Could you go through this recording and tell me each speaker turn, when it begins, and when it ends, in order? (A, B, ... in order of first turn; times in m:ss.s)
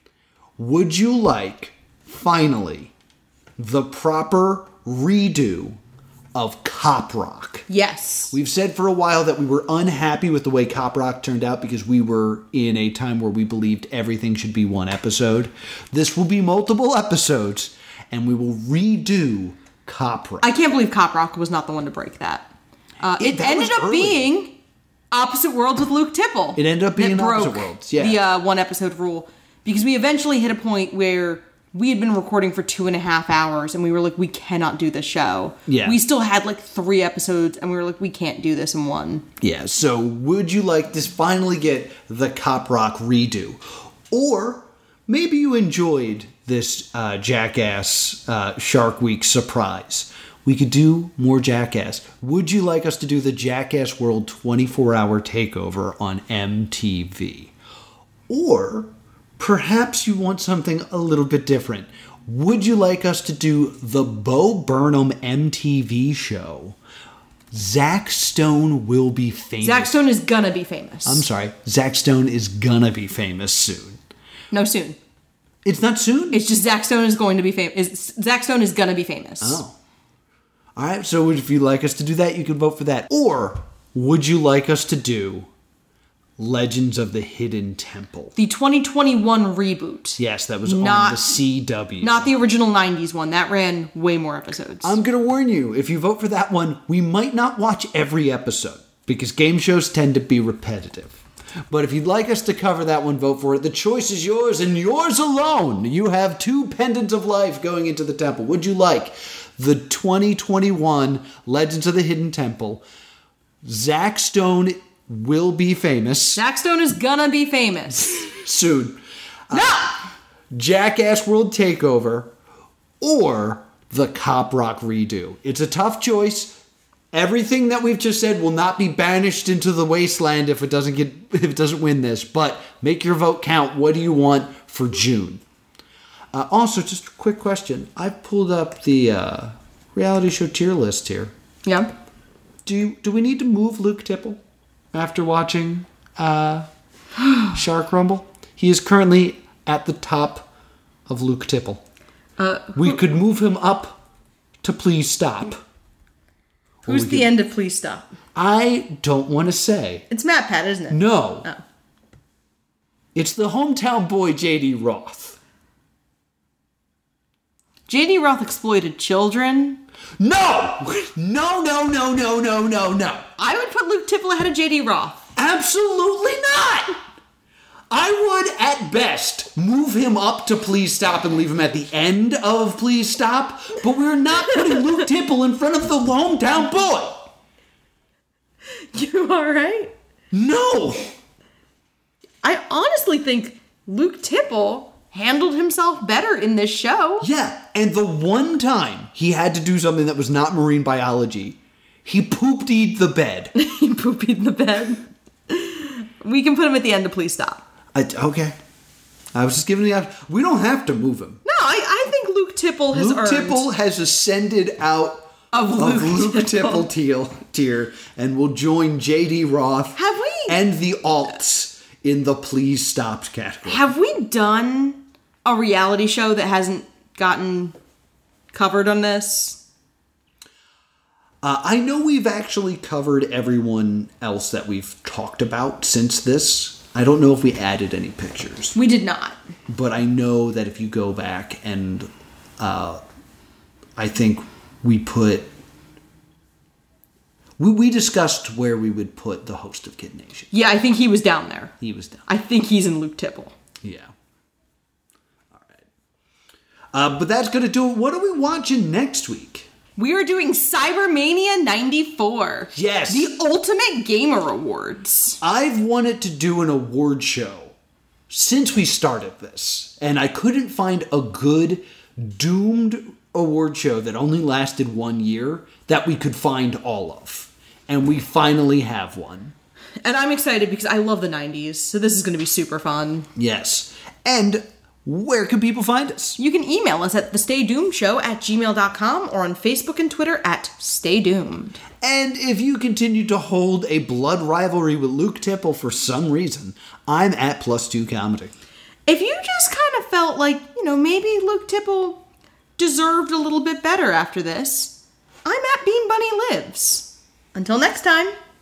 0:00.6-0:02.9 A
0:03.6-0:05.8 A
0:06.4-0:07.7 A
0:07.7-0:08.3 B
0:08.3-0:20.5 A
0:20.4-0:22.5 B
0:23.0-0:24.5 B
0:23.2-0:24.3 A
0:25.1-0:39.3 B
0:26.6-0:28.2 A
0:35.7-0:36.0 A
0:39.4-0:57.5 A
0:58.3-1:06.8 A
1:07.5-1:09.9 A
1:09.6-1:11.2 B
1:11.0-1:14.0 A
1:14.5-1:15.0 B
1:15.6-1:16.4 A
1:16.3-1:19.6 B
1:19.4-1:19.8 A
1:20.8-1:25.5 A
1:26.4-1:28.4 A
1:28.4-1:31.4 B
1:30.2-1:32.3 A
1:32.0-1:35.0 B
1:34.8-1:41.2 A
1:41.7-1:52.8 A
1:53.6-1:56.4 A
1:56.4-1:58.2 B
1:58.0-2:00.0 A
1:59.5-2:00.0 B
2:00.5-2:02.3 A
2:03.0-2:06.6 A
2:07.1-2:15.4 A
2:16.3-2:21.3 A
2:21.6-2:21.9 B
2:22.7-2:24.4 A
2:24.9-2:26.7 A
2:27.5-2:30.5 A
2:31.1-2:31.8 A
2:32.4-2:33.0 B
2:32.8-2:34.0 A
2:34.6-2:35.6 A
2:36.8-2:38.1 B
2:36.9-2:37.3 A
2:38.4-2:40.0 A
2:40.1-2:41.6 B
2:40.9-2:41.5 A
2:43.2-2:45.4 A
2:47.9-2:49.8 B
2:50.2-2:53.3 A
2:53.4-2:55.2 B
2:55.4-2:57.0 A
2:57.9-3:07.3 A
3:08.9-3:09.9 B
3:10.3-3:11.0 A
3:12.4-3:17.3 B
3:17.2-3:23.5 A
3:23.6-3:27.6 B
3:28.0-3:28.6 A
3:29.3-3:31.4 A
3:31.4-3:33.7 B
3:32.9-3:43.8 A
3:35.5-3:36.9 B
3:40.0-3:40.6 B
3:43.6-3:47.8 B
3:48.5-3:49.6 B
3:51.4-3:58.8 A
3:58.8-3:59.4 B
3:59.7-4:02.1 A
4:02.6-4:03.0 A
4:04.0-4:05.5 A
4:07.6-4:10.5 A
4:10.5-4:11.8 B
4:11.8-4:12.2 A
4:12.3-4:13.6 B
4:13.8-4:14.1 A
4:16.9-4:19.7 A
4:20.0-4:25.4 B
4:22.7-4:23.3 A
4:25.4-4:27.7 A
4:28.3-4:39.5 A
4:40.0-4:43.3 B
4:43.4-4:46.4 A
4:46.4-4:51.8 B
4:52.0-4:58.5 A
4:59.1-5:02.2 B
5:02.8-5:08.4 B